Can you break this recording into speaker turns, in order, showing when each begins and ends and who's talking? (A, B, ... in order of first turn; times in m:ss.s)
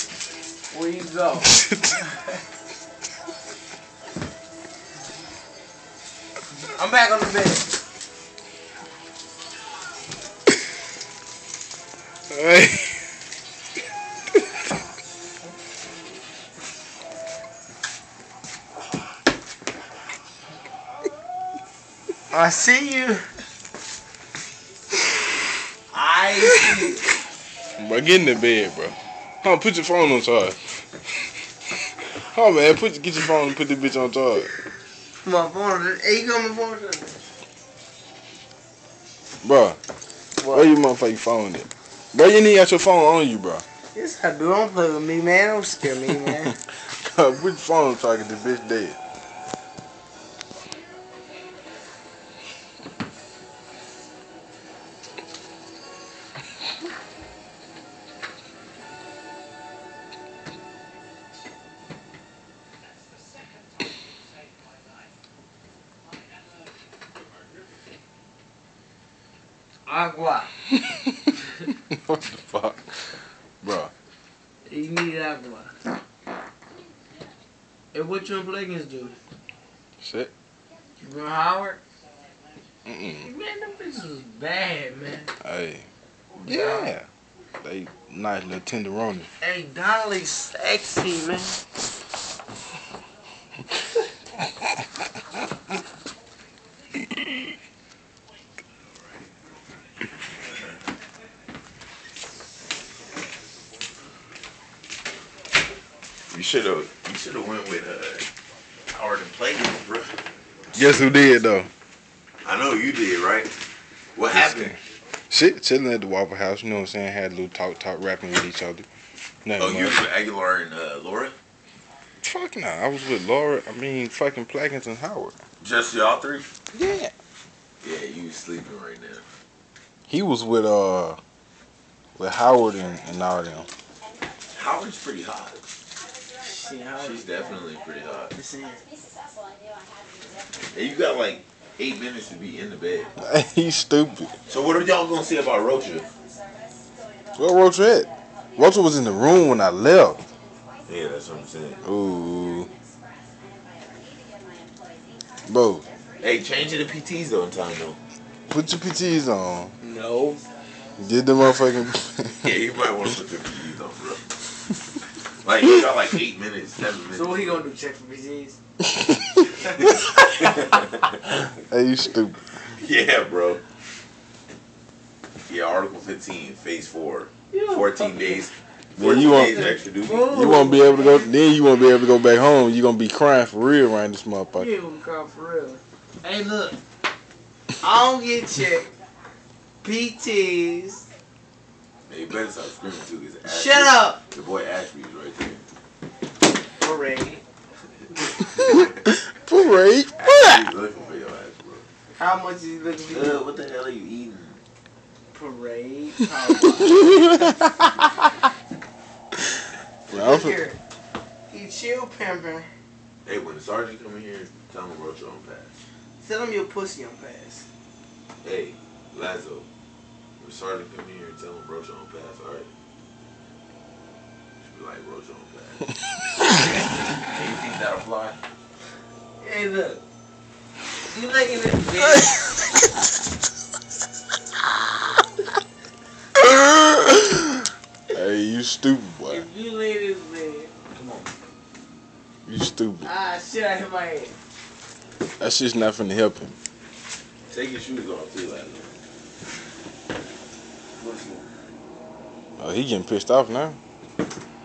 0:00.7-0:02.2 A
0:06.7-0:07.7 A
0:12.3-0:13.0 B
0:22.3-0:23.3 A
0:25.9-0:27.0 A
0:27.8-0:30.9 B
0:32.0-0:34.5 B
0:35.2-0:37.1 A
0:39.4-0:39.8 B
0:40.4-0:40.7 A
0:40.5-0:43.6 B
0:43.9-0:46.6 A
0:46.9-0:49.0 B
1:09.9-1:10.5 A
1:10.9-1:11.2 B
1:11.7-1:13.1 B
1:13.6-1:13.9 B
1:14.7-1:15.7 A
1:17.9-1:19.2 A
1:20.0-1:20.3 B
1:21.0-1:21.8 A
1:22.9-1:23.3 B
1:23.2-1:25.3 A
1:25.4-1:25.9 B
1:26.4-1:26.9 A
1:26.4-1:27.1 B
1:27.6-1:29.3 B
1:29.4-1:31.6 A
1:46.3-1:48.3 C
1:48.9-1:50.2 C
1:50.7-1:51.7 B
1:52.4-1:53.5 C
1:54.2-1:54.8 C
1:54.3-1:54.8 B
1:55.3-1:58.9 B
1:59.4-2:00.0 B
1:59.6-2:01.3 C
2:02.2-2:05.3 B
2:05.6-2:06.5 C
2:06.7-2:07.1 B
2:07.8-2:09.2 C
2:10.1-2:11.2 B
2:12.2-2:13.7 B
2:14.5-2:15.6 C
2:16.4-2:17.2 A
2:17.0-2:18.3 C
2:18.3-2:18.8 A
2:20.6-2:23.1 C
2:23.2-2:24.4 B
2:24.5-2:26.1 C
2:27.3-2:30.2 B
2:30.8-2:31.8 C
2:31.8-2:32.7 B
2:35.4-2:35.8 B
2:36.2-2:38.0 C
2:38.5-2:39.7 B
2:39.8-2:40.4 A
2:41.0-2:42.6 B
2:42.4-2:44.4 C
2:45.3-2:47.7 C
2:47.1-2:48.6 A
2:48.9-2:49.4 B
2:49.8-2:51.2 C
2:51.3-2:52.5 B
2:52.6-2:53.6 C
2:55.5-3:00.3 C
2:57.5-2:58.4 A
2:59.0-2:59.7 B
2:59.0-3:01.3 A
3:00.2-3:04.7 B
3:04.5-3:06.8 A
3:07.8-3:08.9 A
3:09.8-3:11.1 A
3:12.1-3:15.6 C
3:13.4-3:14.2 A
3:16.8-3:17.4 A
3:18.7-3:20.6 B
3:20.2-3:21.8 C
3:22.1-3:23.4 A
3:23.1-3:24.6 C
3:25.3-3:27.7 A
3:26.9-3:28.2 B
3:30.1-3:30.8 A
3:30.1-3:30.6 B
3:31.5-3:32.7 A
3:33.2-3:35.7 C
3:36.2-3:37.7 A
3:38.4-3:39.7 C
3:40.4-3:42.7 C
3:44.6-3:45.8 C
3:47.1-3:48.4 C
3:49.4-3:50.0 A
3:51.1-3:52.4 A
3:56.4-3:57.4 B
3:58.1-3:59.4 B
3:59.3-4:00.7 A
4:00.9-4:01.3 C
4:02.4-4:03.1 B
4:03.0-4:04.3 A
4:05.4-4:06.5 B
4:07.5-4:08.9 C
4:11.0-4:11.4 C
4:12.6-4:13.8 B